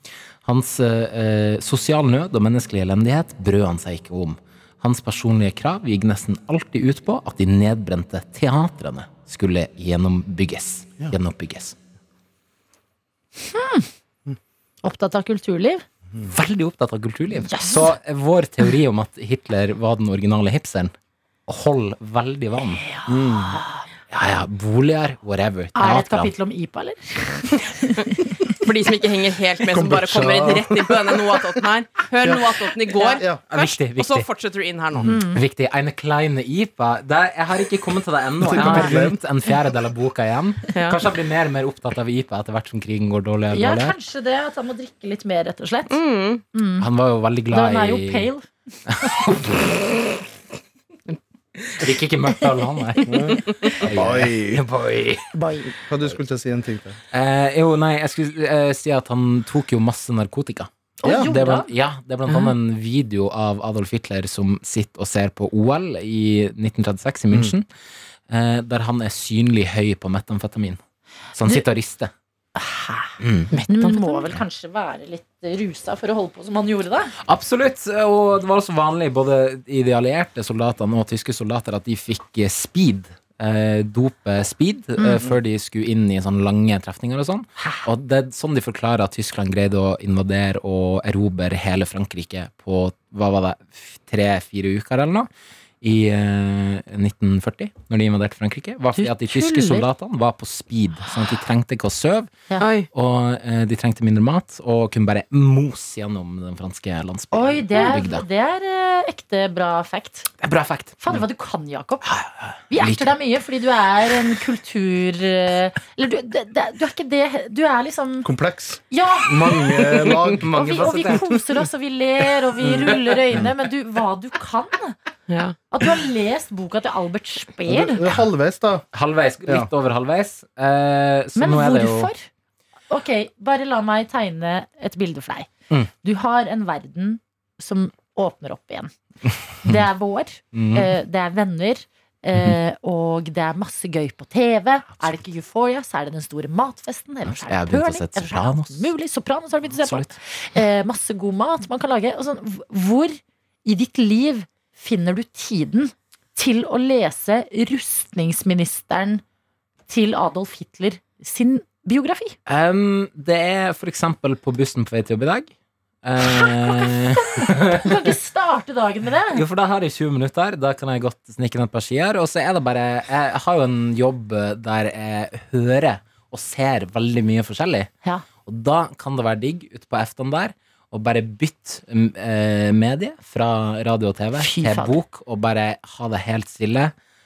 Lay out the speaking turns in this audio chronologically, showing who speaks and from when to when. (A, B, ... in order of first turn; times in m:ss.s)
0:00.4-0:11.8 A
0:13.4-0:13.9 B
0:14.8-0:15.8 B
0:16.3-0:20.9 A
0:17.4-0:17.9 B
0:21.5-0:22.9 A
0:22.8-0:23.8 B
0:23.1-0:23.6 C
0:24.1-0:26.3 A
0:25.8-0:28.2 B
0:28.6-0:35.2 D
0:29.6-0:31.6 C
0:32.2-0:33.4 C
0:33.5-0:34.3 A
0:35.1-0:35.4 B
0:35.1-0:44.0 A
0:38.4-0:39.2 C
0:38.6-0:38.9 B
0:40.7-0:41.0 D
0:43.5-0:46.0 B
0:45.9-0:46.4 D
0:46.5-0:46.9 B
0:46.8-0:48.3 A
0:47.5-0:48.4 B
0:48.9-0:49.6 A
0:51.7-0:55.3 A
0:53.1-0:54.6 C
0:55.3-0:55.7 B
0:55.7-0:57.0 C
0:57.1-1:07.7 A
1:01.0-1:01.7 B
1:01.0-1:01.3 C
1:08.3-1:10.8 A
1:11.3-1:12.1 A
1:12.6-1:17.1 B
1:13.2-1:13.5 A
1:13.5-1:14.3 D
1:17.2-1:35.3 A
1:35.8-1:42.3 A
1:39.0-1:39.9 B
1:42.6-1:42.9 D
1:42.8-1:48.2 A
1:47.3-1:50.3 B
1:50.4-1:51.2 A
1:51.0-1:52.1 B
1:52.0-1:53.1 A
1:52.7-1:58.3 B
1:58.2-2:00.5 C
1:58.9-2:05.0 B
2:00.3-2:01.4 A
2:02.6-2:03.5 C
2:05.3-2:05.6 D
2:05.7-2:08.0 B
2:07.7-2:08.8 C
2:08.9-2:12.1 A
2:11.4-2:12.3 B
2:12.9-2:18.9 B
2:19.6-2:39.2 B
2:20.5-2:20.9 A
2:27.3-2:28.9 A
2:29.8-2:30.2 A
2:39.9-2:42.4 B
2:42.5-2:45.5 A
2:46.0-2:48.2 A
2:46.4-2:49.4 B
2:49.3-2:57.9 A
2:58.4-3:06.9 A
3:04.4-3:05.0 B